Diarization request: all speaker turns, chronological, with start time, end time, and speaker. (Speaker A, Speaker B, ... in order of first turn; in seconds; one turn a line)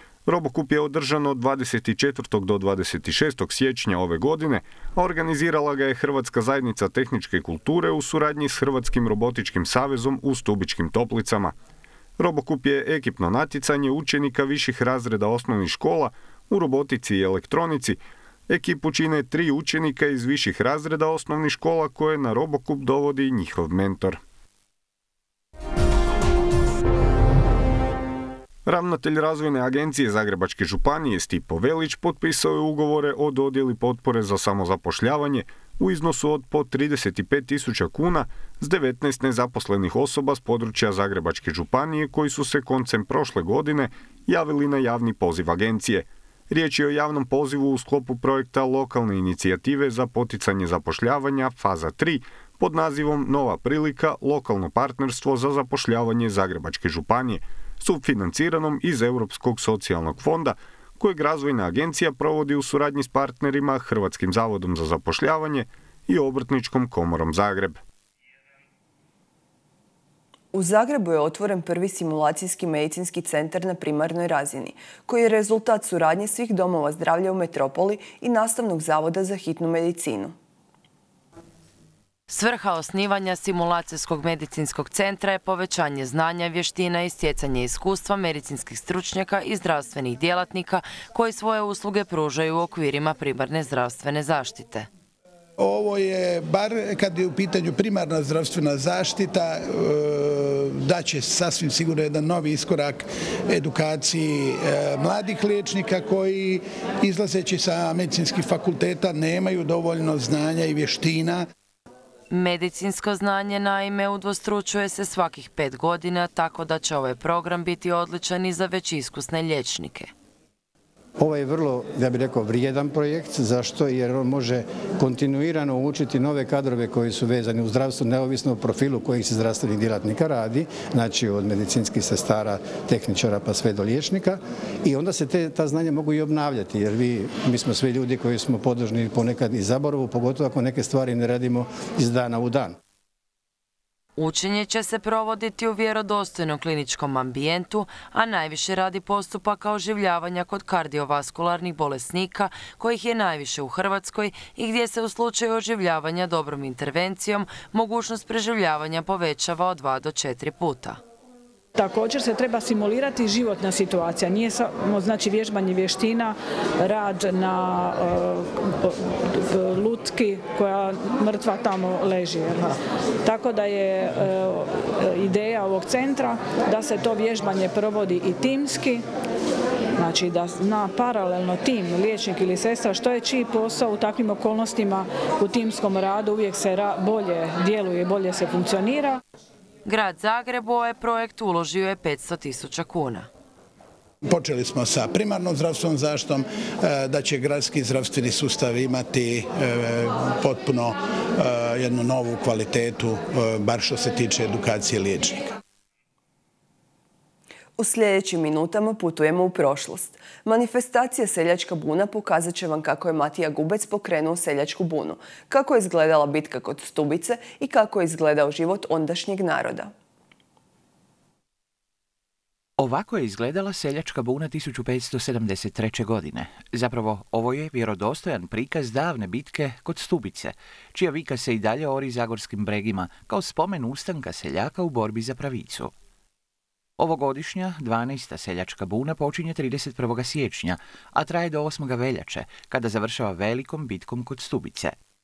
Speaker A: 0.3-11.5
Speaker A: 12.2-24.2
Speaker A: 28.6-67.8
Speaker B: 70.5-80.3
Speaker C: 82.3-94.9
Speaker D: 95.6-111.4
Speaker C: 112.3-120.1
Speaker E: 121.2-142.8
Speaker C: 144.2-161.0
Speaker F: 161.7-172.7
Speaker F: 173.2-179.0
Speaker F: 180.0-189.2
Speaker C: 189.8-193.3
Speaker D: 194.3-205.4
Speaker B: 207.8-219.9
Speaker G: 222.8-235.9
Speaker G: 237.0-244.9